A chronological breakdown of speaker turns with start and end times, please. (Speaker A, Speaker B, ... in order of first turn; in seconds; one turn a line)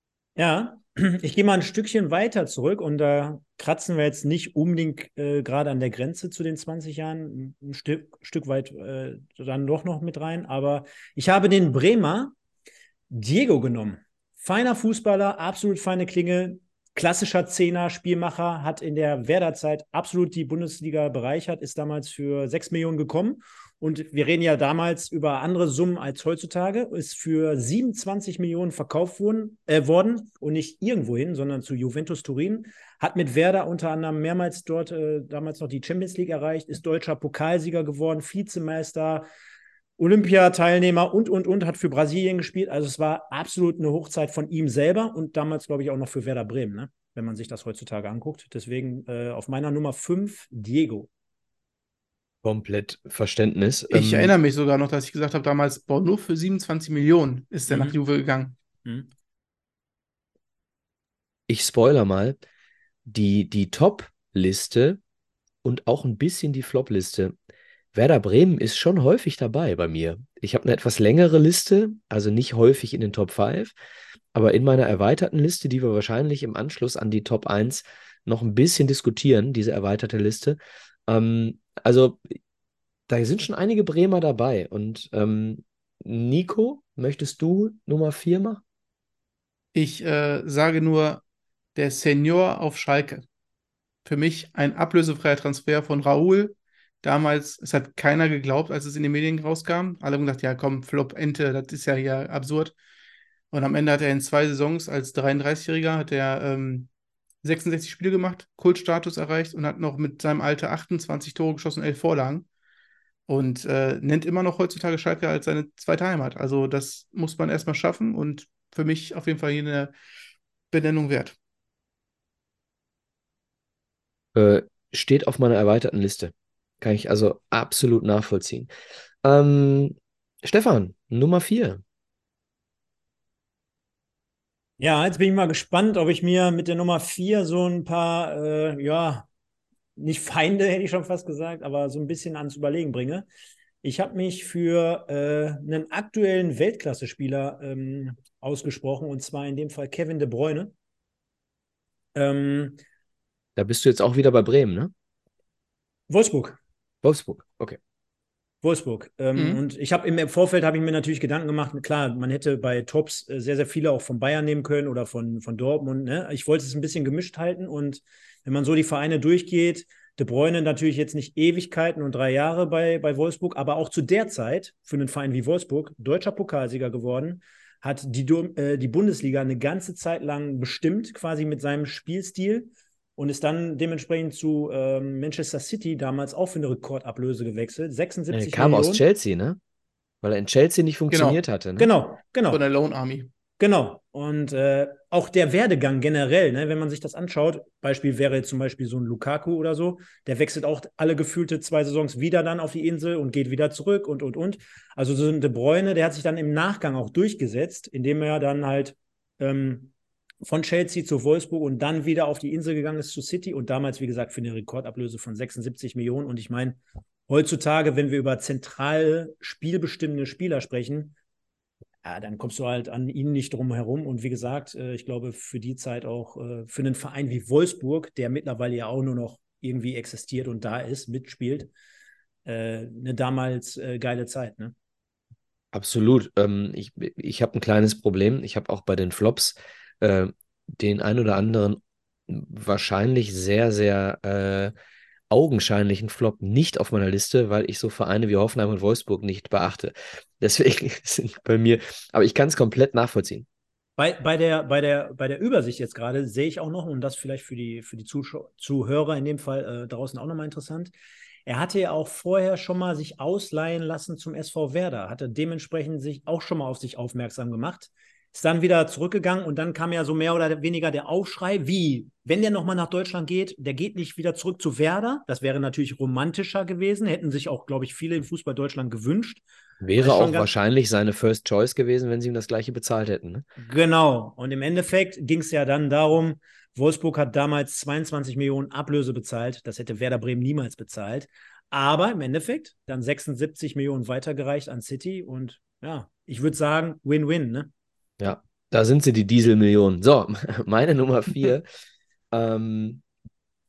Speaker A: 0.4-12.3
Speaker A: 13.1-39.3
Speaker A: 40.0-51.1
Speaker B: 52.4-54.4
Speaker C: 53.9-58.6
Speaker A: 57.7-58.0
Speaker B: 61.5-62.4
Speaker B: 63.1-65.0
Speaker B: 65.6-67.3
Speaker B: 67.9-73.7
Speaker B: 74.3-82.4
Speaker B: 83.1-88.6
Speaker C: 89.7-91.2
Speaker C: 91.8-93.2
Speaker C: 94.0-102.7
Speaker C: 103.5-106.9
Speaker C: 107.4-112.5
Speaker C: 113.3-119.9
Speaker C: 120.7-121.4
Speaker B: 124.3-128.7
Speaker B: 129.2-131.8
Speaker A: 134.8-139.3
Speaker A: 140.0-143.3
Speaker A: 143.8-150.7
Speaker A: 152.2-152.8
Speaker B: 153.6-154.9
Speaker A: 156.1-156.6
Speaker B: 157.0-157.8
Speaker A: 158.6-189.0
Speaker C: 159.3-159.6
Speaker B: 188.3-189.6
Speaker B: 190.2-191.9
Speaker C: 191.1-191.4
Speaker A: 191.8-192.6
Speaker C: 192.5-193.3
Speaker A: 193.6-209.9
Speaker A: 210.4-221.1
Speaker A: 222.0-231.7
Speaker A: 232.4-234.7
Speaker B: 235.7-244.7
Speaker B: 245.3-253.5
Speaker A: 254.0-260.9
Speaker A: 261.5-279.4
Speaker B: 279.8-283.4
Speaker A: 280.0-280.5
Speaker A: 283.6-297.7
Speaker B: 298.2-301.7
Speaker B: 302.3-303.0